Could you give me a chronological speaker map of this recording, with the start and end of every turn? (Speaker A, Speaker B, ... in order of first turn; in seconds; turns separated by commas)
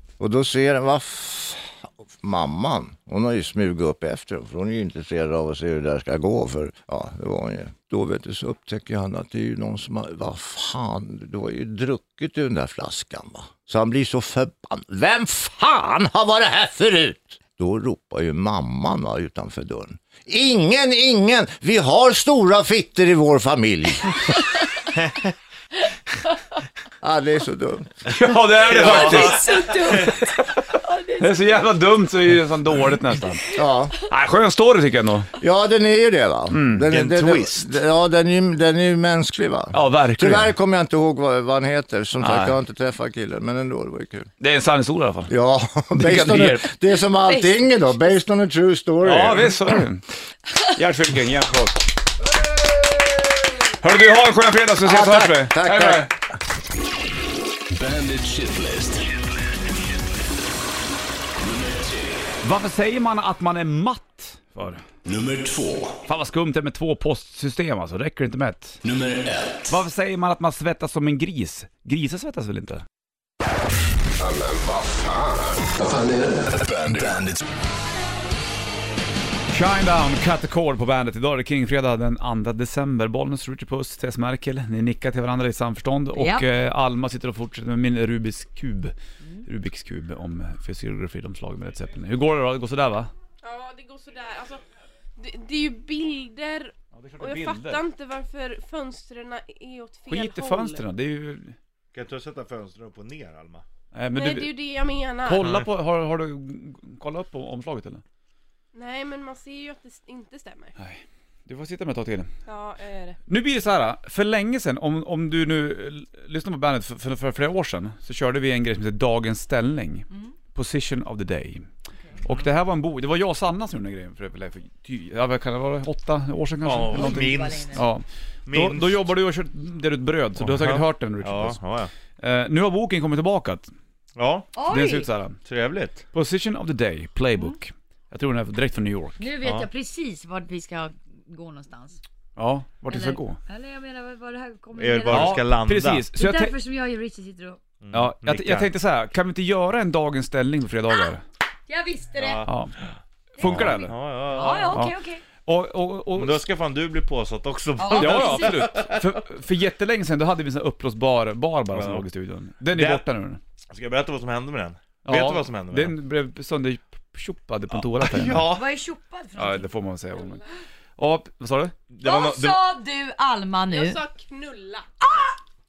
Speaker A: 0.2-24.1, Speaker B: 25.0-25.3, Speaker A: 27.0-28.4, Speaker C: 28.1-35.3, Speaker B: 28.6-30.2, Speaker D: 28.8-31.6, Speaker A: 33.5-34.0, Speaker A: 35.4-44.3, Speaker C: 36.5-36.9, Speaker B: 36.9-37.8, Speaker C: 39.7-40.5, Speaker C: 42.2-42.6, Speaker C: 44.4-45.3, Speaker A: 45.3-49.8, Speaker C: 45.9-46.7, Speaker D: 47.1-47.6, Speaker C: 49.0-50.1, Speaker C: 50.6-51.9, Speaker C: 53.8-56.1, Speaker A: 54.8-56.1, Speaker E: 57.7-59.1, Speaker E: 61.4-62.4, Speaker C: 62.4-64.8, Speaker E: 65.0-66.0, Speaker C: 66.1-68.8, Speaker E: 68.8-69.8, Speaker C: 69.7-72.8, Speaker E: 74.2-77.4, Speaker C: 79.5-93.1, Speaker D: 86.2-86.5, Speaker F: 93.4-94.6, Speaker F: 95.2-100.8, Speaker C: 96.9-97.8, Speaker C: 100.1-101.6, Speaker B: 101.9-103.7, Speaker C: 103.9-104.5, Speaker F: 104.2-105.5, Speaker C: 105.2-108.0, Speaker F: 108.7-110.7, Speaker C: 110.8-112.3, Speaker F: 112.5-113.2, Speaker C: 113.3-121.7, Speaker B: 122.2-122.5, Speaker C: 122.2-131.6, Speaker B: 126.7-127.8, Speaker D: 126.9-127.8, Speaker B: 128.5-129.1, Speaker B: 130.4-131.9, Speaker C: 132.2-133.7, Speaker B: 134.2-134.5, Speaker D: 134.6-135.1, Speaker C: 134.7-135.4, Speaker B: 135.4-136.0, Speaker C: 136.1-139.3, Speaker D: 139.2-142.0, Speaker B: 139.4-139.7, Speaker C: 142.4-143.4, Speaker D: 142.9-145.4, Speaker B: 144.8-146.1, Speaker C: 145.1-146.6, Speaker D: 146.2-147.6, Speaker B: 147.8-148.7, Speaker C: 147.9-151.2, Speaker D: 151.7-152.4, Speaker B: 152.1-152.5, Speaker C: 152.4-152.7, Speaker C: 153.4-154.0, Speaker D: 153.4-155.2, Speaker B: 153.4-154.9, Speaker C: 154.7-156.4, Speaker B: 156.2-159.2, Speaker D: 157.8-158.7, Speaker C: 157.9-163.4, Speaker B: 161.7-162.1, Speaker B: 162.7-163.1, Speaker B: 163.7-166.0, Speaker C: 165.1-168.5, Speaker B: 167.7-168.7, Speaker D: 168.4-169.7, Speaker C: 169.4-170.4, Speaker C: 171.0-171.8, Speaker B: 171.9-172.6, Speaker D: 172.0-174.0, Speaker F: 173.7-174.8, Speaker D: 175.0-175.4